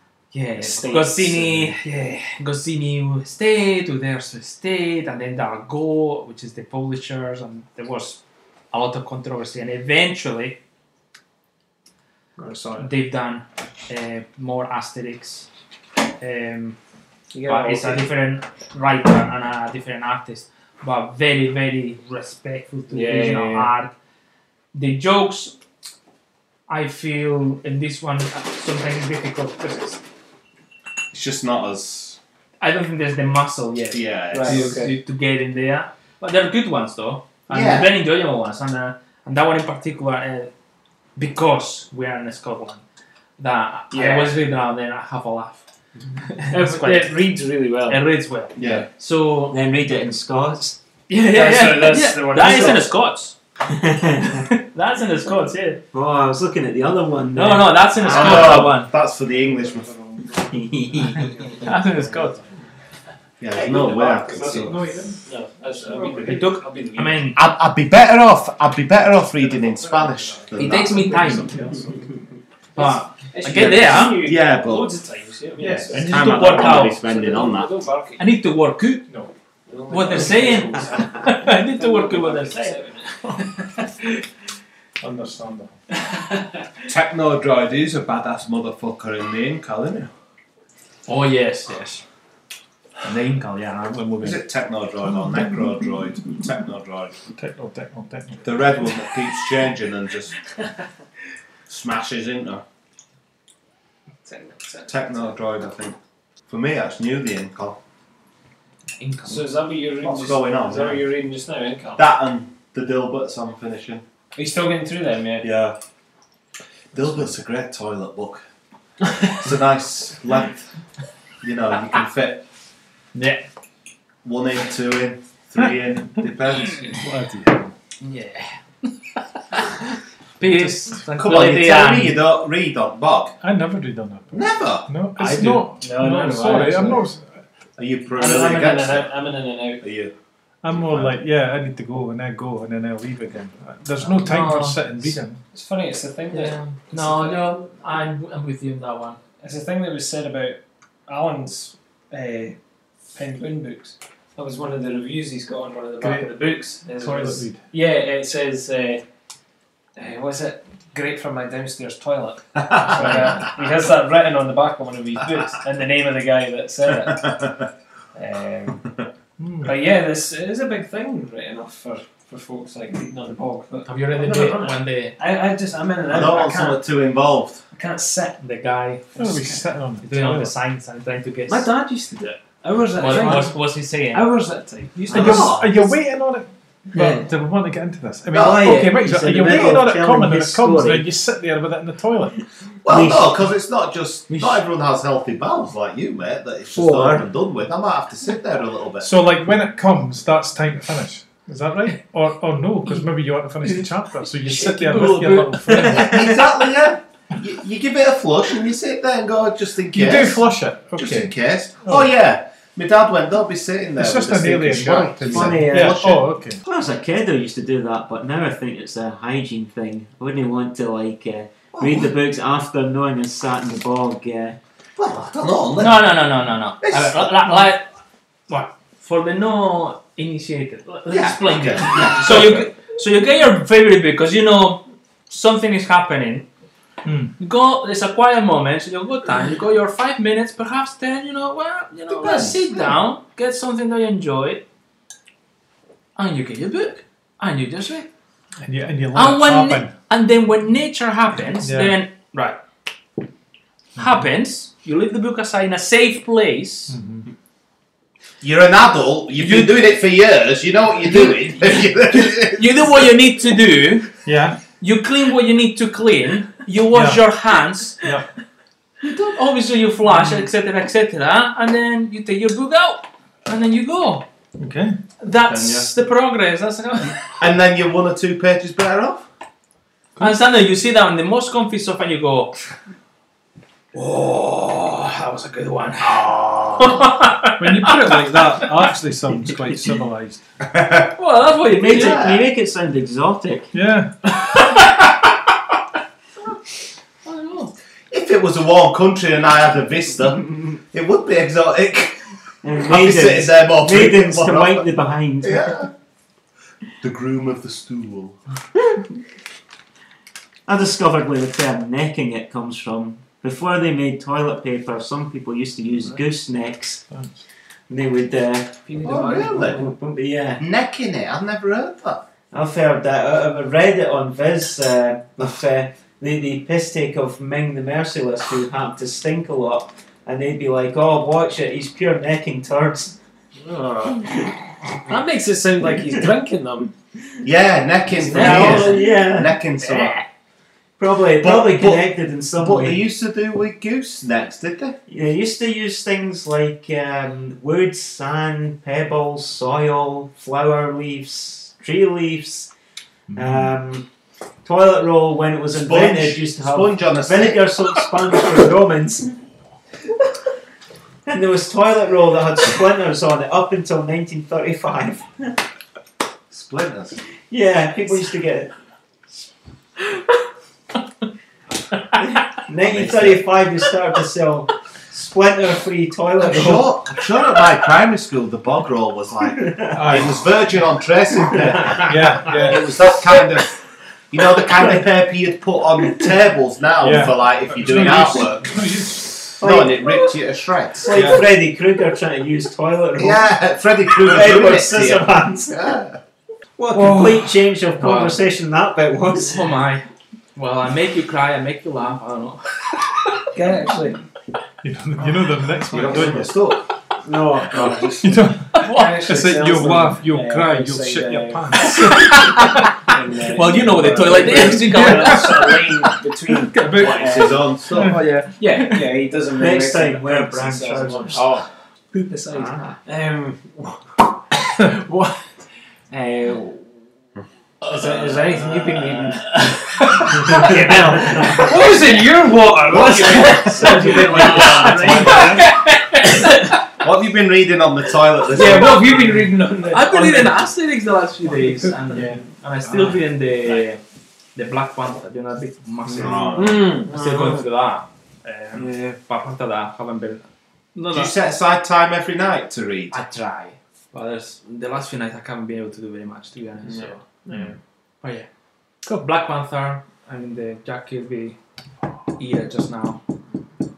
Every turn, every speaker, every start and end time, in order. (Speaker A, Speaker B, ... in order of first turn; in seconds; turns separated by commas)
Speaker A: 0.3-10.6, Speaker B: 0.6-1.7, Speaker B: 12.4-12.9, Speaker A: 12.8-15.5, Speaker A: 16.2-16.8, Speaker B: 17.3-18.1, Speaker A: 17.4-23.9, Speaker B: 22.9-23.7, Speaker A: 24.7-25.5, Speaker A: 26.7-30.0, Speaker C: 31.1-32.2, Speaker A: 32.6-40.5, Speaker C: 33.9-34.8, Speaker B: 34.3-35.0, Speaker C: 37.5-37.9, Speaker A: 41.1-42.8, Speaker A: 43.4-47.2, Speaker B: 43.9-44.5, Speaker B: 46.5-48.0, Speaker A: 47.9-49.5, Speaker C: 48.5-48.9, Speaker D: 49.5-50.8, Speaker A: 51.1-53.3, Speaker B: 51.2-52.9, Speaker D: 53.7-54.5, Speaker A: 54.4-55.8, Speaker D: 55.9-58.8, Speaker A: 57.3-58.9, Speaker C: 58.0-60.0, Speaker D: 60.4-61.3, Speaker A: 61.6-62.4, Speaker C: 63.4-64.8, Speaker B: 63.5-67.2, Speaker E: 64.3-65.2, Speaker A: 66.2-67.4, Speaker C: 67.3-71.2, Speaker A: 70.5-71.6, Speaker E: 70.7-72.1, Speaker A: 72.8-74.2, Speaker B: 72.8-78.2, Speaker C: 73.5-74.9, Speaker E: 75.6-75.9, Speaker C: 75.8-77.7, Speaker A: 75.9-77.0, Speaker A: 78.2-79.1, Speaker B: 79.7-83.5, Speaker A: 79.9-82.8, Speaker A: 83.4-83.9, Speaker E: 85.0-85.8, Speaker A: 86.0-86.5, Speaker C: 86.9-90.1, Speaker A: 91.1-92.0, Speaker A: 93.0-94.4, Speaker C: 94.2-97.1, Speaker E: 97.3-98.5, Speaker C: 98.4-100.3, Speaker C: 101.7-102.6, Speaker B: 104.2-105.2, Speaker C: 104.8-106.0, Speaker C: 106.5-107.8, Speaker A: 109.0-109.4, Speaker B: 109.3-112.0, Speaker C: 110.0-111.0, Speaker C: 112.0-114.0, Speaker B: 114.3-115.5, Speaker C: 115.4-115.8, Speaker C: 116.9-118.4, Speaker C: 119.2-120.7, Speaker C: 121.4-122.5, Speaker A: 123.1-123.4, Speaker C: 124.2-127.0, Speaker E: 126.9-127.7, Speaker A: 128.0-129.8, Speaker A: 130.4-132.1, Speaker E: 130.6-131.0, Speaker C: 131.1-133.4, Speaker E: 133.4-137.4, Speaker C: 134.3-134.9, Speaker B: 135.2-137.0, Speaker C: 137.8-139.1, Speaker B: 138.2-139.8, Speaker C: 139.8-140.1, Speaker E: 140.6-145.4, Speaker C: 140.7-141.2, Speaker A: 144.2-144.8, Speaker B: 145.5-147.6, Speaker A: 146.3-149.2, Speaker B: 149.4-152.6, Speaker B: 153.1-159.0, Speaker E: 156.0-156.3, Speaker E: 156.9-157.6, Speaker B: 159.9-167.5, Speaker C: 162.7-163.1, Speaker E: 162.9-163.4, Speaker B: 168.1-169.0, Speaker E: 169.4-169.8, Speaker B: 169.6-176.9, Speaker A: 173.8-175.2, Speaker C: 176.1-177.6, Speaker B: 177.7-178.4, Speaker A: 178.4-179.5, Speaker B: 179.1-179.6, Speaker E: 179.2-180.5, Speaker A: 180.0-181.7, Speaker B: 181.5-185.4, Speaker A: 182.9-184.3, Speaker D: 185.1-185.4, Speaker E: 185.1-192.4, Speaker C: 185.1-185.8, Speaker D: 186.9-187.2, Speaker C: 188.3-188.7, Speaker D: 188.3-191.1, Speaker C: 192.8-199.1, Speaker D: 192.9-193.5, Speaker D: 196.7-197.2, Speaker E: 199.0-206.2, Speaker A: 204.5-206.0, Speaker C: 205.8-210.4, Speaker D: 205.9-206.2, Speaker E: 209.9-211.3, Speaker C: 210.9-216.2, Speaker E: 214.0-216.6, Speaker D: 215.2-216.1, Speaker D: 216.6-224.6, Speaker C: 221.7-222.1, Speaker C: 224.9-226.2, Speaker A: 225.7-227.9, Speaker C: 226.8-227.7, Speaker A: 228.5-236.5, Speaker C: 231.1-232.7, Speaker E: 237.0-237.3, Speaker A: 237.4-244.6, Speaker C: 242.1-242.7, Speaker A: 246.2-248.1, Speaker E: 248.6-249.9, Speaker A: 249.1-252.6, Speaker E: 251.6-252.0, Speaker E: 254.0-254.2, Speaker A: 254.0-256.9, Speaker E: 256.9-257.2, Speaker C: 258.4-262.9, Speaker A: 259.4-259.7, Speaker A: 262.3-264.1, Speaker E: 264.2-264.6, Speaker A: 264.8-268.1, Speaker E: 266.9-267.2, Speaker E: 268.0-268.3, Speaker A: 269.0-274.2, Speaker E: 274.6-275.0, Speaker A: 275.2-277.4, Speaker C: 275.3-275.9, Speaker C: 277.3-279.2, Speaker A: 280.2-282.6, Speaker A: 283.9-288.7, Speaker C: 286.0-287.1, Speaker E: 287.6-290.4, Speaker C: 290.7-291.1, Speaker A: 291.1-292.2, Speaker D: 291.6-293.7, Speaker C: 291.9-292.5, Speaker E: 293.7-294.1, Speaker A: 294.4-295.0, Speaker A: 297.2-297.7, Speaker C: 298.1-304.9, Speaker D: 302.6-305.8, Speaker C: 305.4-305.9, Speaker C: 307.0-308.4, Speaker D: 310.7-317.0, Speaker D: 317.9-320.6, Speaker B: 318.9-319.9, Speaker C: 319.0-319.8, Speaker C: 320.6-322.2, Speaker D: 322.5-333.2, Speaker B: 333.6-334.3, Speaker D: 334.3-334.5, Speaker B: 335.1-336.9, Speaker C: 337.4-340.2, Speaker B: 338.1-339.1, Speaker D: 338.3-340.2, Speaker D: 341.0-343.0, Speaker C: 341.3-345.0, Speaker D: 345.1-352.7, Speaker E: 353.3-353.7, Speaker D: 353.3-354.1, Speaker D: 354.6-359.4, Speaker C: 355.7-357.7, Speaker D: 361.3-365.6, Speaker C: 366.5-367.2, Speaker D: 367.5-368.7, Speaker D: 372.2-377.2, Speaker C: 372.8-373.5, Speaker C: 376.4-383.8, Speaker D: 379.4-380.3, Speaker E: 379.9-380.4, Speaker D: 381.6-382.1, Speaker E: 382.0-382.9, Speaker C: 384.3-388.8, Speaker E: 387.0-389.5, Speaker C: 389.6-391.4, Speaker D: 389.6-390.2, Speaker D: 391.0-393.5, Speaker E: 391.1-391.4, Speaker C: 393.1-396.2, Speaker D: 394.1-395.9, Speaker D: 396.8-399.7, Speaker B: 396.9-397.4, Speaker A: 398.0-398.4, Speaker A: 399.4-403.5, Speaker B: 403.5-404.2, Speaker E: 404.8-406.6, Speaker C: 405.9-406.9, Speaker B: 407.2-412.1, Speaker E: 408.2-412.3, Speaker A: 408.8-409.2, Speaker A: 411.8-419.1, Speaker B: 413.1-417.7, Speaker E: 414.0-415.6, Speaker E: 416.8-418.2, Speaker C: 416.9-418.2, Speaker B: 418.6-421.6, Speaker D: 419.6-421.5, Speaker A: 421.3-421.6, Speaker B: 422.1-425.3, Speaker D: 422.5-423.0, Speaker B: 426.1-426.9, Speaker B: 427.8-436.6, Speaker C: 428.0-429.4, Speaker A: 429.6-430.6, Speaker D: 430.4-431.9, Speaker C: 432.9-435.4, Speaker A: 433.3-436.8, Speaker E: 434.1-435.6, Speaker C: 437.0-439.3, Speaker B: 438.5-440.6, Speaker A: 438.5-444.0, Speaker E: 441.5-443.2, Speaker A: 444.5-451.4, Speaker C: 446.1-447.1, Speaker B: 446.5-447.6, Speaker B: 448.7-449.2, Speaker C: 451.1-453.2, Speaker A: 453.1-457.2, Speaker B: 456.8-457.8, Speaker A: 458.2-458.5, Speaker A: 459.0-461.6, Speaker A: 462.4-463.2